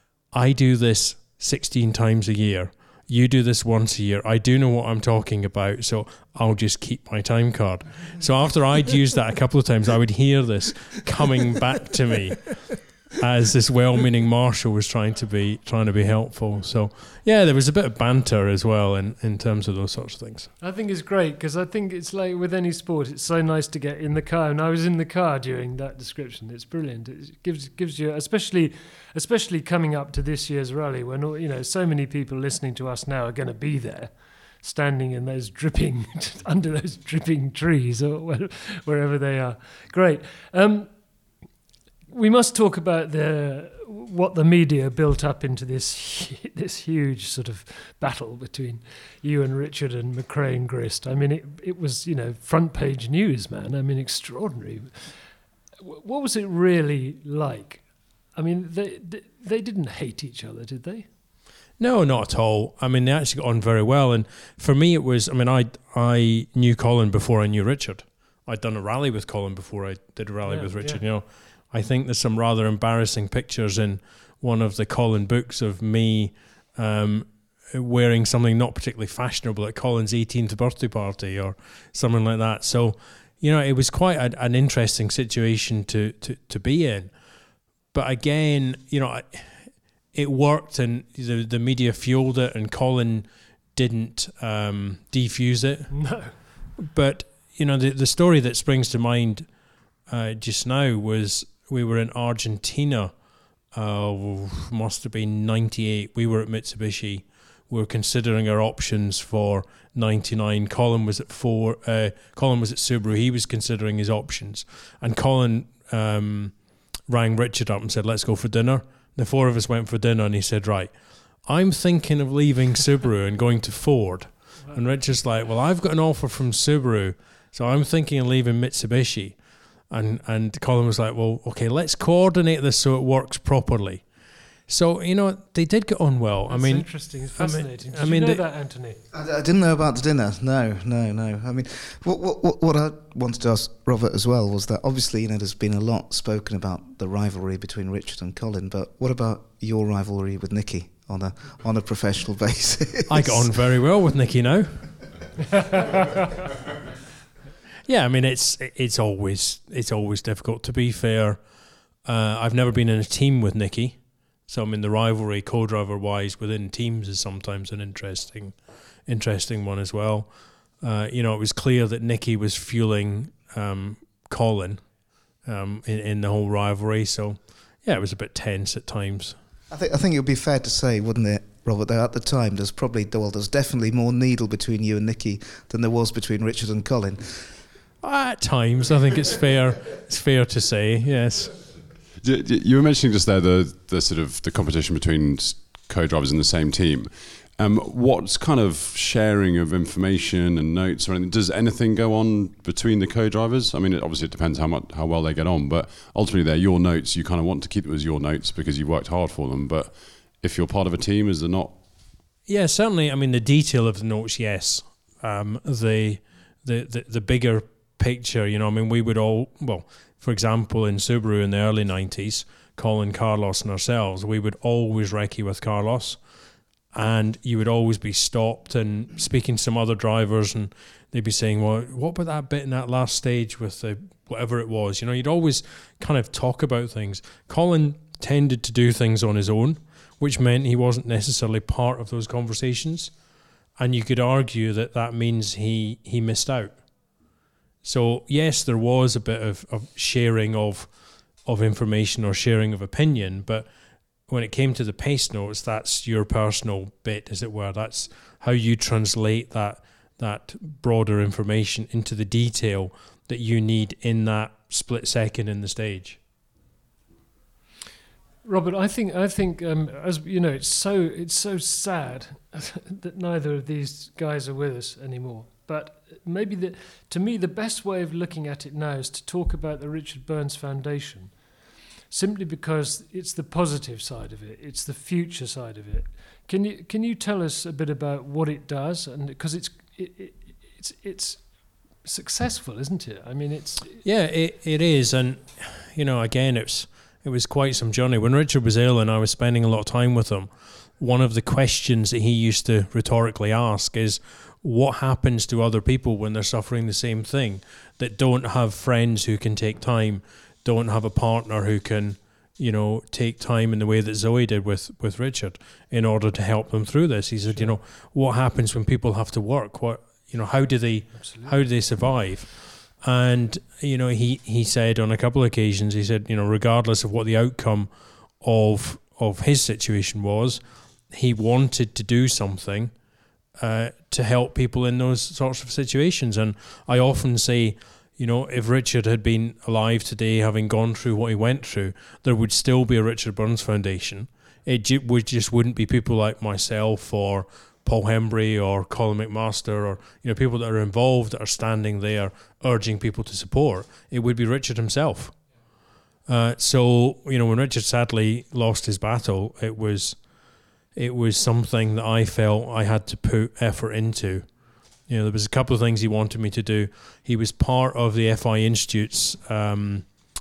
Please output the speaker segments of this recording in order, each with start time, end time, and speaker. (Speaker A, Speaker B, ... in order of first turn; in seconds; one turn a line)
Speaker A: 0.3-20.5
Speaker B: 20.6-40.9
Speaker B: 42.1-55.2
Speaker B: 55.8-57.8
Speaker B: 58.4-61.1
Speaker A: 61.8-87.1
Speaker B: 70.5-71.0
Speaker A: 87.9-96.1
Speaker B: 95.9-96.3
Speaker A: 96.8-99.5
Speaker A: 100.1-103.1
Speaker A: 103.7-116.5
Speaker A: 117.1-120.9
Speaker A: 121.5-129.4
Speaker A: 129.9-134.0
Speaker A: 134.7-138.4
Speaker B: 136.5-139.0
Speaker C: 139.1-153.5
Speaker A: 153.1-154.9
Speaker A: 157.9-161.4
Speaker A: 162.1-168.6
Speaker A: 169.1-170.3
Speaker A: 170.8-174.8
Speaker A: 175.4-179.3
Speaker C: 179.7-187.5
Speaker A: 188.0-191.6
Speaker D: 192.2-211.8
Speaker A: 212.5-226.2
Speaker A: 226.9-243.1
Speaker A: 243.8-246.8
Speaker A: 247.8-250.9
Speaker A: 251.4-253.7
Speaker A: 254.3-266.2
Speaker B: 268.4-281.4
Speaker B: 282.1-291.4
Speaker B: 292.0-294.0
Speaker A: 294.0-327.9
Speaker B: 317.5-317.8
Speaker B: 321.2-321.6
Speaker A: 328.4-332.9
Speaker A: 333.6-355.4
Speaker A: 356.3-360.3
Speaker A: 360.9-364.5
Speaker A: 365.1-370.1